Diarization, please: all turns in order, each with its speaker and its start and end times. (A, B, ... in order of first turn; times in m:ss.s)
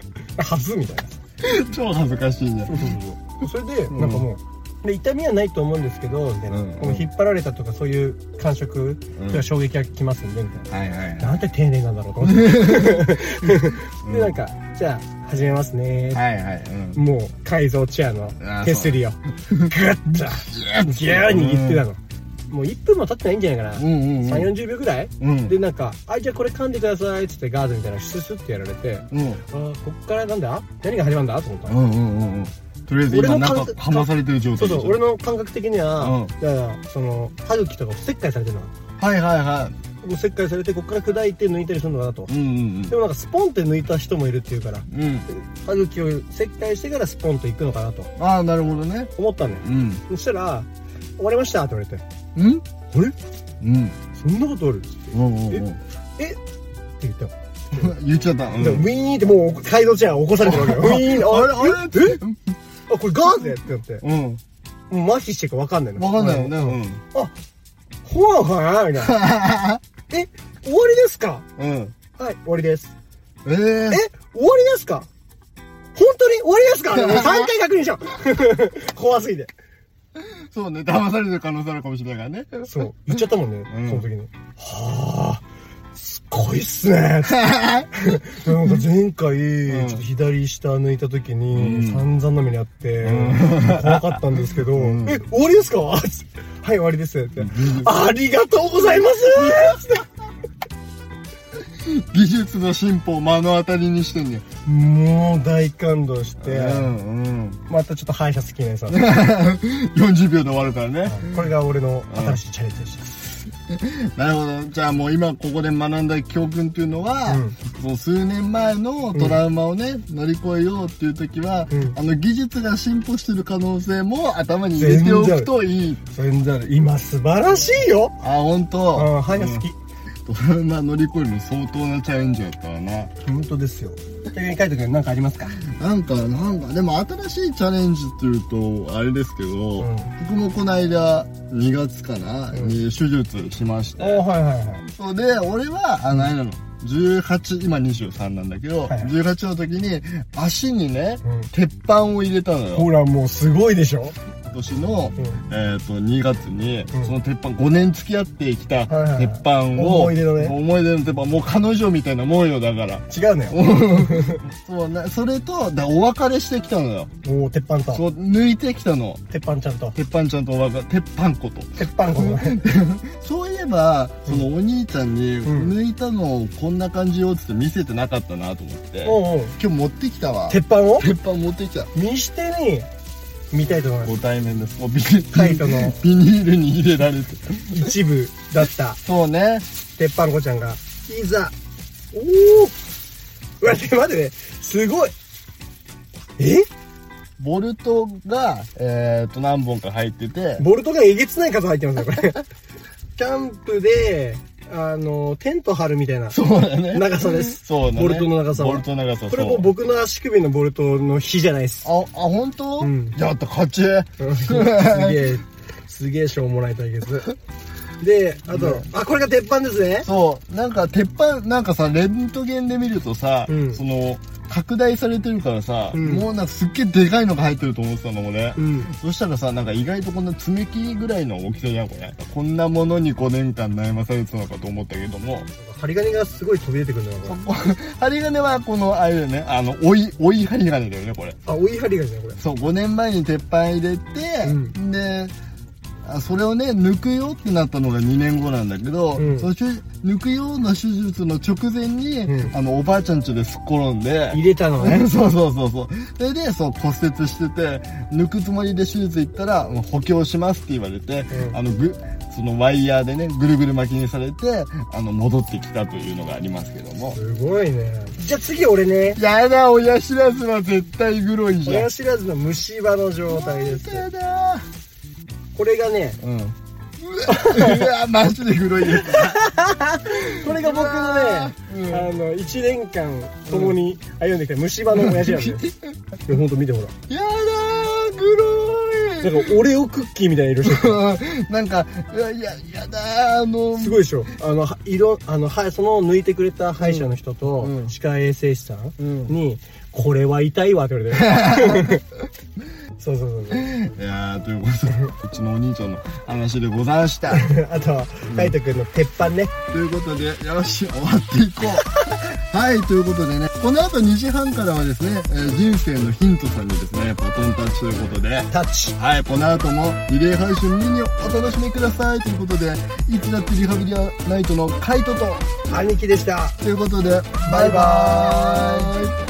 0:00.4-0:01.2 A
0:01.4-0:02.9 B
0:02.7-0:10.7 A
0:03.9-0:04.2 B
0:06.5-0:07.0 B
0:09.2-0:09.4 B
0:10.7-0:11.4 B
0:11.2-0:16.2 A
0:12.3-0:13.5 B
0:14.0-0:14.3 B
0:16.1-0:17.0 B
0:16.9-0:31.8 A
0:18.4-0:19.7 B
0:20.5-0:21.8 B
0:23.8-0:24.5 B
0:25.2-0:25.6 B
0:29.1-0:29.4 B
0:31.7-0:35.0 B
0:33.1-0:38.7 A
0:36.0-0:36.3 B
0:39.0-0:39.7 B
0:40.0-0:42.3 A
0:42.3-0:42.9 B
0:42.9-0:48.1 A
0:44.9-0:45.3 B
0:48.2-0:49.1 B
0:49.2-0:50.7 A
0:49.6-0:50.0 B
0:51.2-0:52.0 A
0:52.4-0:52.6 B
0:52.9-0:53.2 A
0:53.6-0:54.0 B
0:54.1-0:55.6 A
0:55.1-0:55.8 B
0:57.0-0:57.9 A
0:57.7-0:58.9 B
0:58.6-1:02.2 A
1:00.4-1:02.4 B
1:02.9-1:04.0 A
1:04.0-1:04.4 B
1:04.9-1:07.3 A
1:06.0-1:07.0 B
1:08.0-1:09.3 A
1:09.0-1:09.8 B
1:10.1-1:11.4 A
1:11.6-1:11.9 B
1:12.2-1:12.9 A
1:13.4-1:14.0 B
1:13.9-1:15.1 A
1:15.9-1:19.5 A
1:16.9-1:17.5 B
1:20.2-1:24.0 B
1:22.6-1:25.4 A
1:26.0-1:40.0 A
1:27.4-1:27.8 B
1:29.7-1:30.0 B
1:31.5-1:32.0 B
1:33.0-1:35.2 B
1:37.4-1:37.9 B
1:41.6-1:44.4 B
1:44.6-1:46.9 A
1:46.4-1:47.6 B
1:47.7-1:49.0 A
1:48.9-1:51.5 B
1:51.0-1:53.1 A
1:52.1-1:52.4 B
1:53.7-2:06.0 B
1:57.3-1:57.6 A
1:59.1-1:59.4 A
2:01.7-2:02.0 A
2:04.8-2:05.5 A
2:06.1-2:08.2 A
2:08.2-2:09.6 B
2:08.9-2:09.8 A
2:10.2-2:13.1 B
2:13.2-2:15.6 A
2:15.6-2:24.2 B
2:19.8-2:20.1 A
2:24.0-2:24.8 A
2:24.9-2:32.9 B
2:28.9-2:29.1 A
2:31.2-2:31.5 A
2:32.7-2:34.2 A
2:34.5-2:47.1 B
2:35.2-2:35.4 A
2:38.9-2:40.5 A
2:43.1-2:44.4 A
2:47.2-2:48.0 A
2:47.9-2:49.2 B
2:49.3-2:50.0 A
2:49.9-3:01.9 B
2:51.8-2:52.6 A
2:55.4-2:55.7 A
2:59.0-2:59.6 A
3:00.5-3:01.1 A
3:01.9-3:02.9 A
3:03.5-3:04.2 A
3:04.0-3:07.9 B
3:05.3-3:06.0 A
3:07.7-3:09.0 A
3:09.0-3:09.6 B
3:10.0-3:11.5 A
3:12.1-3:12.7 A
3:13.6-3:15.1 A
3:16.4-3:16.7 A
3:17.4-3:20.6 B
3:20.6-3:22.4 A
3:23.2-3:26.4 A
3:26.3-3:29.7 B
3:26.9-3:31.9 A
3:31.8-3:35.3 B
3:32.8-3:33.2 A
3:34.2-3:37.3 A
3:38.0-3:40.1 A
3:38.5-3:38.8 B
3:40.0-3:55.5 B
3:43.5-3:43.8 A
3:45.9-3:46.3 A
3:48.6-3:48.9 A
3:55.6-3:57.4 A
3:57.2-4:01.4 B
4:01.4-4:02.4 A
4:02.4-4:05.3 B
4:04.4-4:04.8 A
4:06.0-4:27.2 B
4:09.2-4:09.5 A
4:12.2-4:12.5 A
4:14.3-4:15.1 A
4:21.3-4:21.6 A
4:27.1-4:29.2 A
4:29.2-4:31.9 B
4:31.6-4:34.1 A
4:33.3-4:34.6 B
4:35.5-4:36.2 A
4:36.2-4:39.4 B
4:37.2-4:37.9 A
4:38.8-4:45.7 A
4:40.1-4:42.1 B
4:43.5-4:43.8 B
4:44.9-4:45.8 B
4:46.2-4:46.9 A
4:47.1-4:49.5 B
4:49.2-4:51.0 A
4:50.6-4:54.0 B
4:53.7-5:02.0 A
4:56.8-4:57.9 B
4:59.0-4:59.3 B
5:01.2-5:02.0 B
5:03.0-5:03.7 A
5:03.5-5:07.5 B
5:07.3-5:09.5 A
5:08.2-5:08.5 B
5:09.7-5:25.5 B
5:18.5-5:19.0 A
5:25.7-5:26.6 A
5:26.6-5:29.2 B
5:27.4-5:28.9 A